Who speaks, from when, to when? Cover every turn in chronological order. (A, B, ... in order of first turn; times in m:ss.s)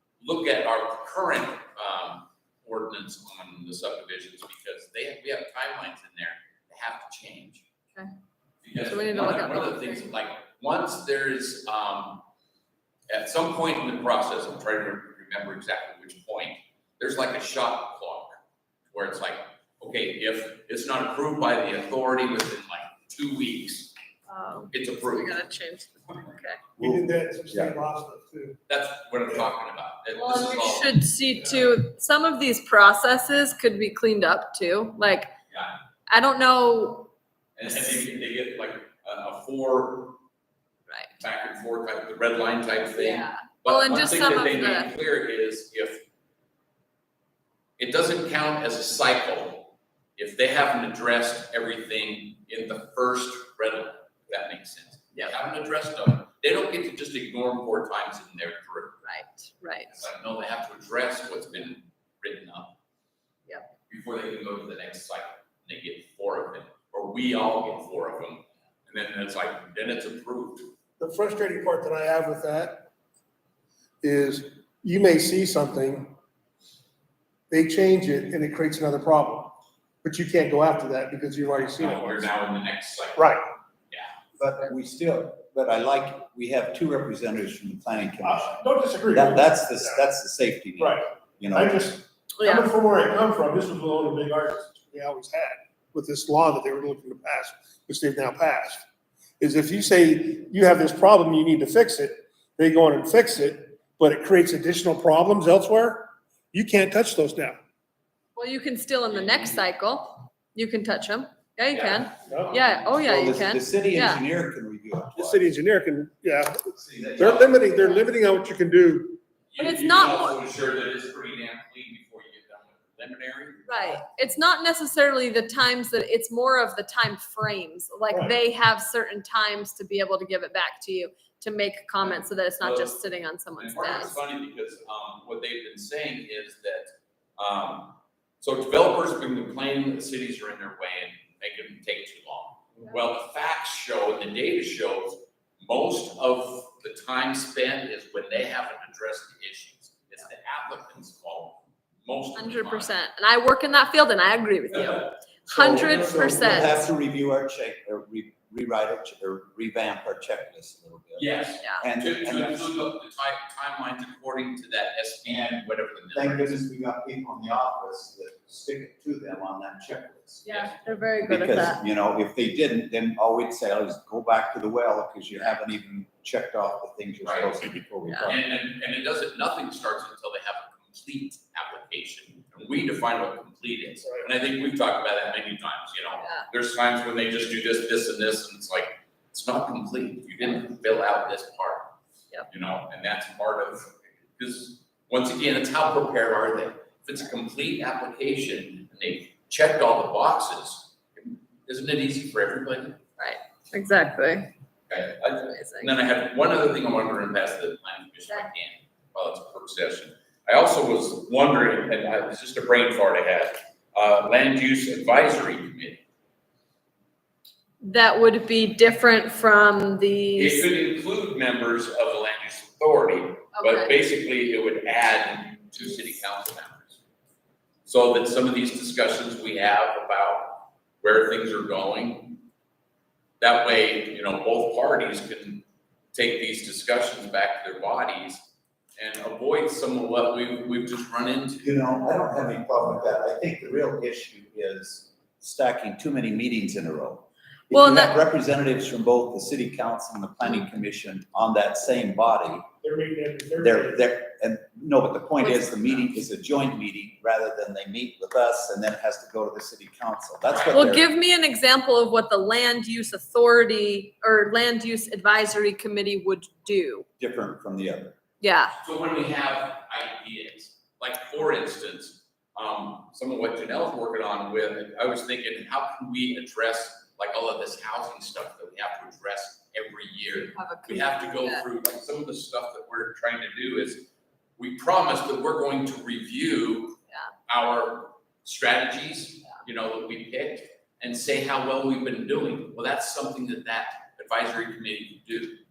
0:00.2-0:07.6 A
0:08.6-0:12.2 A
0:08.8-0:10.0 B
0:13.1-0:18.4 A
0:18.9-0:23.9 A
0:24.3-0:26.6 B
0:24.7-0:25.4 A
0:26.8-0:28.6 C
0:26.8-0:27.7 D
0:28.7-0:31.0 A
0:30.2-0:35.3 B
0:35.5-0:35.8 A
0:36.1-0:37.1 B
0:37.6-0:40.2 A
0:41.2-0:46.0 A
0:43.0-0:44.9 B
0:47.8-0:59.0 A
0:59.0-1:00.0 B
0:59.9-1:02.8 A
1:03.9-1:10.7 A
1:11.0-1:12.9 C
1:14.0-1:16.2 C
1:17.5-1:22.3 C
1:21.7-1:23.4 A
1:23.2-1:23.4 C
1:23.9-1:24.2 A
1:24.4-1:28.6 D
1:28.2-1:30.0 C
1:29.1-1:31.8 D
1:30.8-1:38.8 C
1:32.4-1:32.7 B
1:39.4-1:47.6 C
1:48.4-1:54.2 B
1:49.1-1:49.6 A
1:51.7-1:52.8 A
1:52.3-1:52.6 C
1:52.9-1:55.5 D
1:55.2-1:59.2 C
1:56.7-1:58.0 A
1:59.5-2:04.0 A
1:59.6-2:00.4 B
2:03.7-2:14.2 B
2:08.1-2:08.4 C
2:12.0-2:33.0 A
2:32.4-2:36.9 B
2:34.8-2:35.0 A
2:35.5-2:42.8 D
2:41.2-2:46.6 A
2:45.3-2:50.5 D
2:50.4-2:51.8 B
2:50.5-2:50.8 A
2:51.2-2:58.4 D
2:57.2-2:57.5 A
2:58.1-2:58.3 B
2:58.2-3:11.9 A
3:12.5-3:23.0 A
3:23.2-3:24.5 B
3:24.9-3:36.0 A
3:25.5-3:25.9 B
3:37.8-3:40.7 B
3:40.4-3:47.0 A
3:43.6-3:43.9 B
3:47.9-3:52.4 A
3:53.4-3:58.4 A
3:59.0-4:01.7 A
4:01.6-4:12.7 D
4:07.7-4:08.2 B
4:12.8-4:14.0 C
4:13.6-4:21.1 D
4:15.5-4:16.0 B
4:20.5-4:20.9 A
4:20.7-4:27.1 B
4:27.2-4:28.2 D
4:28.4-4:28.8 B
4:28.8-4:55.6 A
4:40.4-4:41.6 B